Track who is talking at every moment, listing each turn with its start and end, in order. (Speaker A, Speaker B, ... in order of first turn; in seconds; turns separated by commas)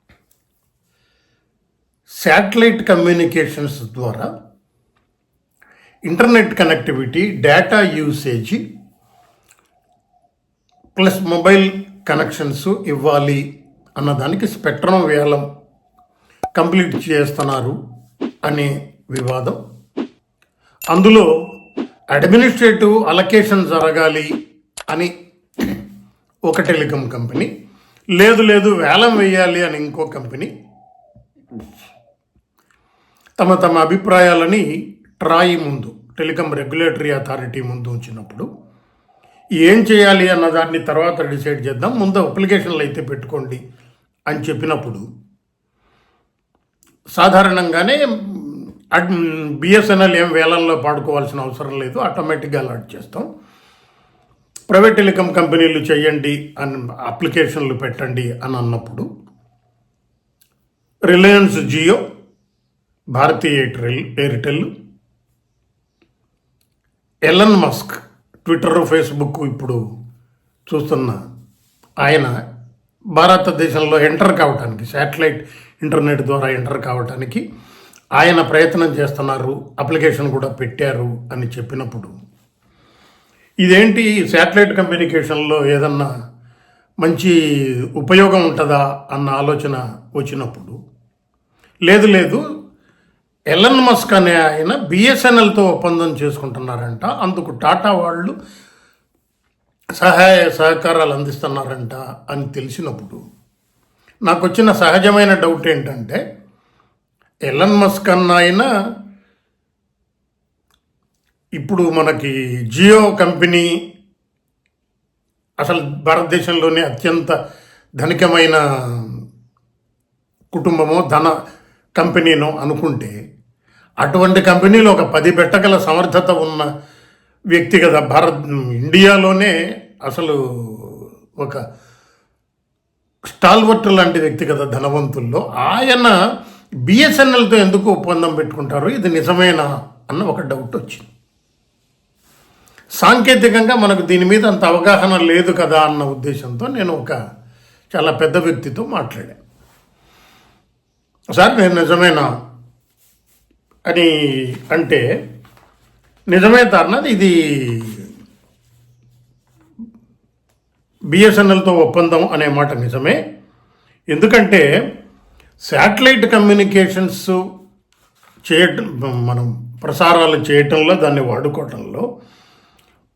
Speaker A: 2.2-4.3, Speaker A: 6.1-8.6, Speaker A: 10.9-13.4, Speaker A: 14.0-15.4, Speaker A: 16.6-17.8, Speaker A: 18.5-19.6, Speaker A: 20.9-21.3, Speaker A: 22.1-24.3, Speaker A: 24.9-25.8, Speaker A: 26.5-27.5, Speaker A: 28.1-30.5, Speaker A: 33.4-34.7, Speaker A: 35.2-38.5, Speaker A: 39.6-43.6, Speaker A: 44.3-45.0, Speaker A: 47.1-53.3, Speaker A: 54.7-59.1, Speaker A: 61.1-62.0, Speaker A: 63.1-64.7, Speaker A: 67.3-69.8, Speaker A: 70.7-71.2, Speaker A: 72.0-72.3, Speaker A: 73.1-77.4, Speaker A: 78.2-82.1, Speaker A: 83.6-86.1, Speaker A: 87.0-87.3, Speaker A: 88.0-90.8, Speaker A: 91.9-92.4, Speaker A: 93.5-98.3, Speaker A: 100.0-103.2, Speaker A: 104.2-106.2, Speaker A: 107.5-108.7, Speaker A: 111.6-113.7, Speaker A: 115.6-117.3, Speaker A: 118.0-119.1, Speaker A: 120.5-121.3, Speaker A: 122.0-123.1, Speaker A: 124.0-126.7, Speaker A: 127.5-131.6, Speaker A: 133.3-136.1, Speaker A: 136.8-141.1, Speaker A: 143.0-147.2, Speaker A: 147.9-149.4, Speaker A: 151.3-152.3, Speaker A: 154.7-155.0, Speaker A: 156.3-158.0, Speaker A: 161.1-163.2, Speaker A: 164.1-164.7, Speaker A: 165.7-167.3, Speaker A: 168.5-172.1